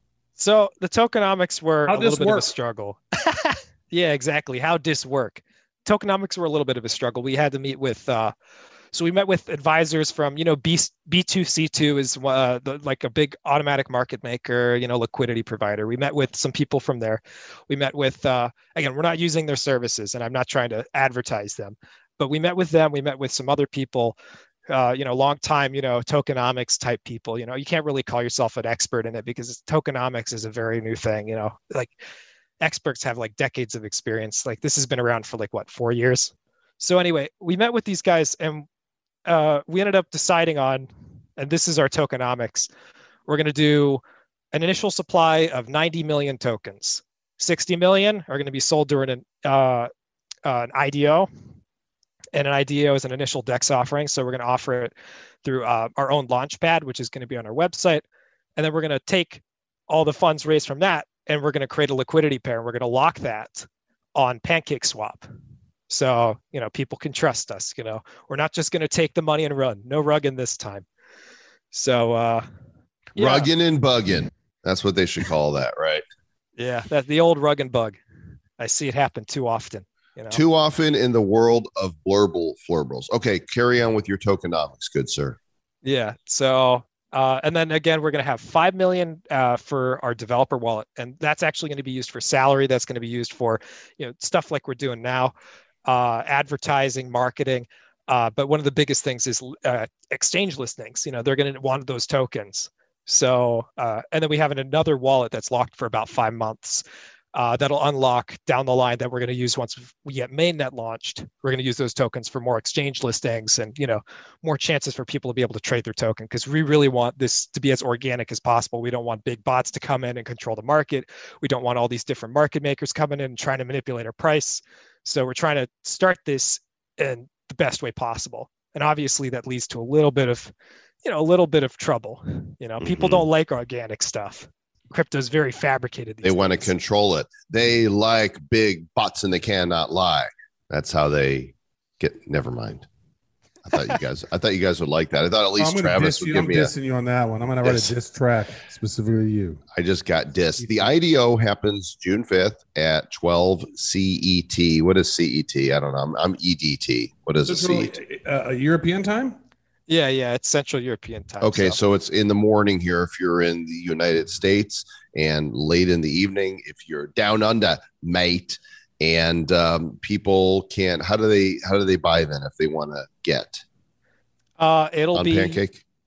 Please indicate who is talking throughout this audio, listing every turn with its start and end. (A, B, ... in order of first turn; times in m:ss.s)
0:00.4-0:08.3 A
0:01.9-0:02.5 B
0:08.9-0:24.2 A
0:24.7-0:31.9 A
0:32.6-0:38.7 A
0:39.3-0:42.7 A
0:43.3-0:44.0 A
0:44.5-0:49.9 A
0:50.4-0:51.3 A
0:52.3-0:54.9 A
0:55.4-0:58.0 A
0:58.6-1:05.3 A
1:05.9-1:10.9 A
1:11.7-1:12.5 A
1:13.2-1:13.5 A
1:13.2-1:16.0 C
1:16.6-1:18.0 A
1:18.6-1:20.4 A
1:20.3-1:25.4 C
1:25.8-1:35.4 A
1:35.9-1:46.8 A
1:47.4-2:10.5 A
2:11.0-2:16.7 A
2:12.8-2:13.3 C
2:16.2-2:22.9 C
2:23.6-2:26.7 C
2:25.6-2:29.6 B
2:27.6-2:27.9 C
2:29.7-2:37.9 C
2:30.6-2:30.9 B
2:37.5-2:39.4 B
2:39.9-2:41.8 A
2:41.4-2:53.6 C
2:54.6-2:55.6 A
2:55.1-2:55.8 C